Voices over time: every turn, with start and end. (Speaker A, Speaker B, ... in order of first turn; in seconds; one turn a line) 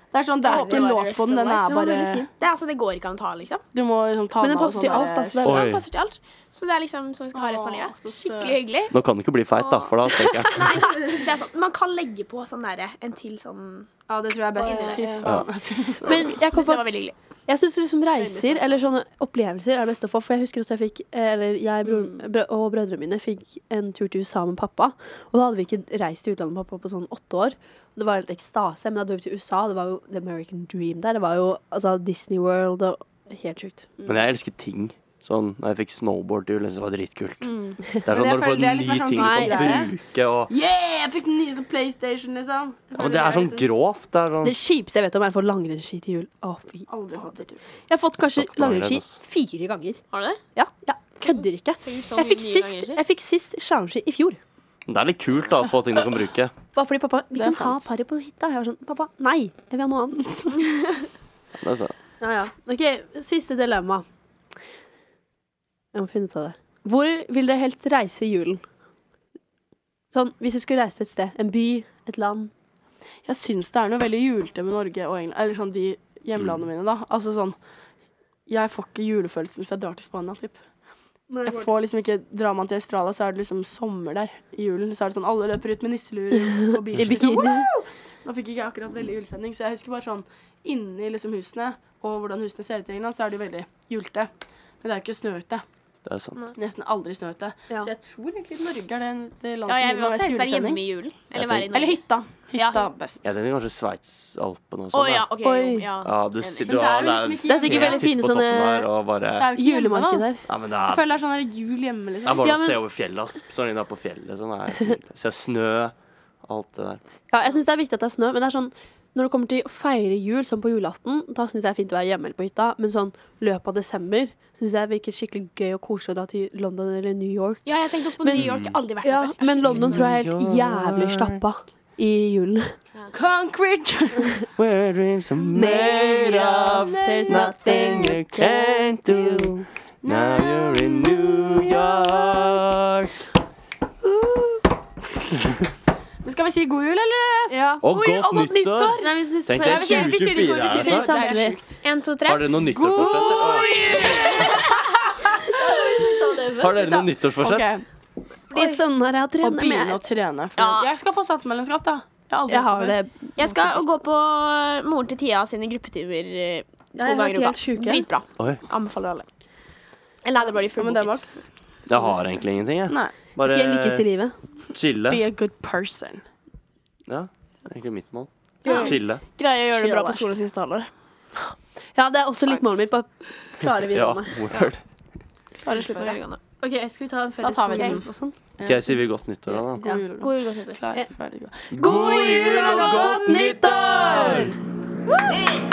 Speaker A: 0.1-2.3
Speaker B: 0.4-1.8
Speaker C: 1.7-2.3
Speaker B: 2.4-3.6
Speaker A: 3.7-5.4
Speaker C: 4.4-5.7
Speaker B: 4.8-8.9
Speaker D: 5.4-5.8
Speaker A: 7.3-8.6
Speaker D: 8.9-10.9
Speaker B: 9.6-13.9
Speaker A: 14.1-16.4
Speaker C: 14.6-15.2
Speaker B: 14.6-15.2
Speaker C: 16.1-33.9
Speaker B: 16.1-17.1
Speaker A: 18.2-18.7
Speaker A: 21.9-22.1
Speaker D: 34.1-37.5
Speaker B: 37.5-37.8
Speaker D: 38.0-40.5
Speaker A: 38.0-39.9
Speaker C: 39.1-39.9
Speaker A: 40.5-43.7
Speaker D: 43.0-44.6
Speaker C: 44.4-50.0
Speaker A: 46.9-47.6
Speaker D: 48.3-49.2
Speaker B: 50.1-50.4
Speaker C: 50.5-54.4
Speaker B: 51.8-53.0
Speaker D: 54.9-56.5
Speaker C: 56.8-60.9
Speaker A: 57.4-57.9
Speaker D: 61.6-61.9
Speaker C: 62.2-64.1
Speaker C: 65.9-68.6
Speaker C: 70.1-72.5
Speaker A: 73.3-77.6
Speaker A: 78.5-80.6
Speaker C: 81.3-81.7
Speaker A: 81.5-94.3
Speaker C: 86.9-87.8
Speaker A: 94.8-95.6
Speaker D: 96.0-96.4
Speaker A: 96.6-100.8
Speaker B: 99.7-102.0
Speaker D: 101.3-101.7
Speaker A: 101.7-103.2
Speaker B: 102.5-102.9
Speaker D: 103.2-105.3
Speaker B: 104.9-106.8
Speaker C: 105.4-105.9
Speaker D: 106.0-109.5
Speaker A: 106.7-108.1
Speaker C: 107.5-108.9
Speaker A: 109.4-110.3
Speaker C: 109.5-110.4
Speaker D: 110.5-111.0
Speaker A: 110.8-112.5
Speaker D: 112.2-117.0
Speaker C: 112.4-112.8
Speaker C: 117.3-132.8
Speaker B: 127.7-130.1
Speaker D: 128.4-128.8
Speaker D: 129.7-131.4
Speaker A: 133.1-134.3
Speaker D: 134.6-143.1
Speaker C: 135.5-139.7
Speaker A: 136.9-137.9
Speaker A: 140.0-142.4
Speaker D: 144.1-144.6
Speaker A: 146.2-147.5
Speaker C: 147.5-147.8
Speaker D: 147.8-151.3
Speaker B: 147.9-149.1
Speaker C: 149.0-151.6
Speaker A: 149.6-151.8
Speaker B: 151.8-154.8
Speaker D: 152.3-154.4
Speaker A: 152.9-154.5
Speaker C: 155.5-156.8
Speaker D: 156.6-157.7
Speaker A: 156.7-157.8
Speaker C: 158.5-160.0
Speaker A: 159.4-163.0
Speaker B: 160.6-160.9
Speaker C: 162.5-163.8
Speaker B: 163.4-169.3
Speaker C: 167.0-168.1
Speaker B: 170.2-171.4
Speaker A: 170.8-171.5
Speaker D: 171.9-174.1
Speaker A: 172.9-173.1
Speaker C: 173.4-174.3
Speaker D: 174.7-175.2
Speaker A: 175.1-176.2
Speaker D: 177.1-179.2
Speaker B: 178.7-180.9
Speaker A: 178.7-179.0
Speaker C: 179.8-180.2
Speaker C: 181.9-184.4
Speaker A: 182.5-182.8
Speaker D: 183.9-184.8
Speaker A: 185.6-186.2
Speaker B: 185.7-186.4
Speaker C: 186.6-188.3
Speaker A: 187.4-188.1
Speaker A: 188.6-191.6
Speaker D: 188.7-189.8
Speaker B: 190.2-190.8
Speaker D: 191.7-194.6
Speaker C: 191.7-194.6
Speaker B: 192.4-193.1
Speaker A: 192.6-193.0